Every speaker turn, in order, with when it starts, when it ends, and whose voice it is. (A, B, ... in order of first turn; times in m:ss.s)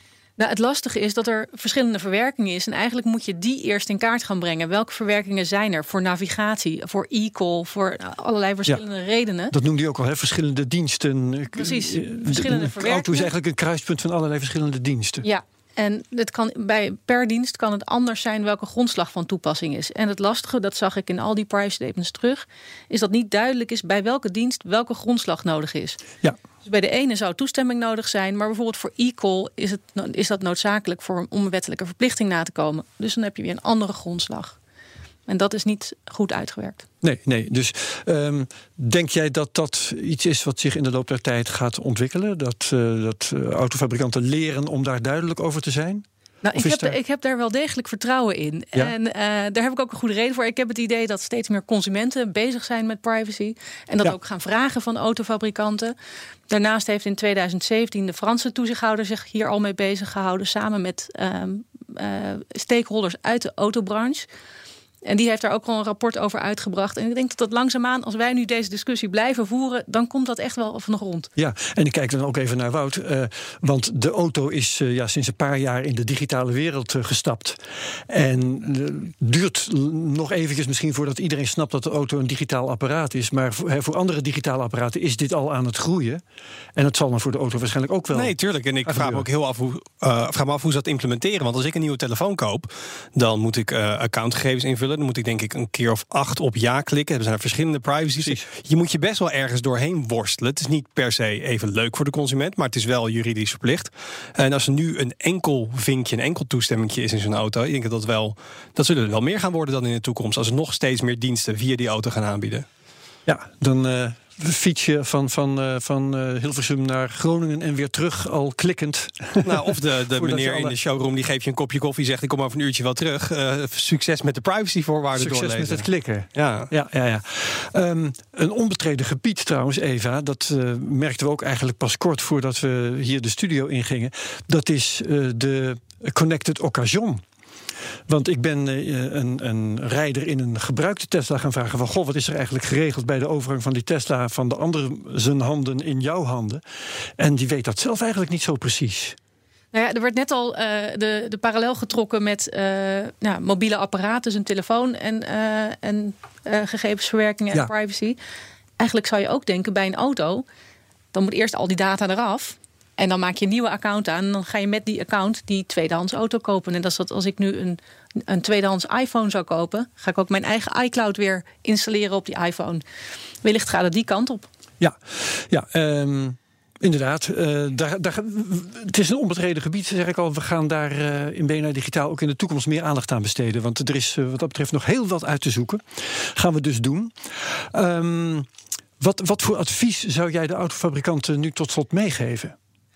0:00.4-0:09.5 A
0:09.5-0:15.2 B
0:11.6-0:13.3 A
0:15.2-0:26.0 A
0:26.6-0:34.6 A
0:35.2-0:36.8 A
0:37.0-0:47.0 B
0:46.4-0:55.9 A
0:56.5-1:04.2 A
1:05.0-1:11.3 A
1:11.4-1:26.2 B
1:26.8-1:29.3 B
1:28.1-1:52.7 C
1:38.2-1:38.4 B
1:53.2-2:00.8 B
1:59.4-2:06.7 C
2:05.2-2:17.2 B
2:18.1-2:26.6 B
2:27.2-2:29.2 B
2:29.7-2:38.2 A
2:38.8-2:40.4 A
2:41.1-2:52.8 A
2:53.4-2:54.5 A
2:54.8-3:08.5 B
3:09.0-3:12.6 B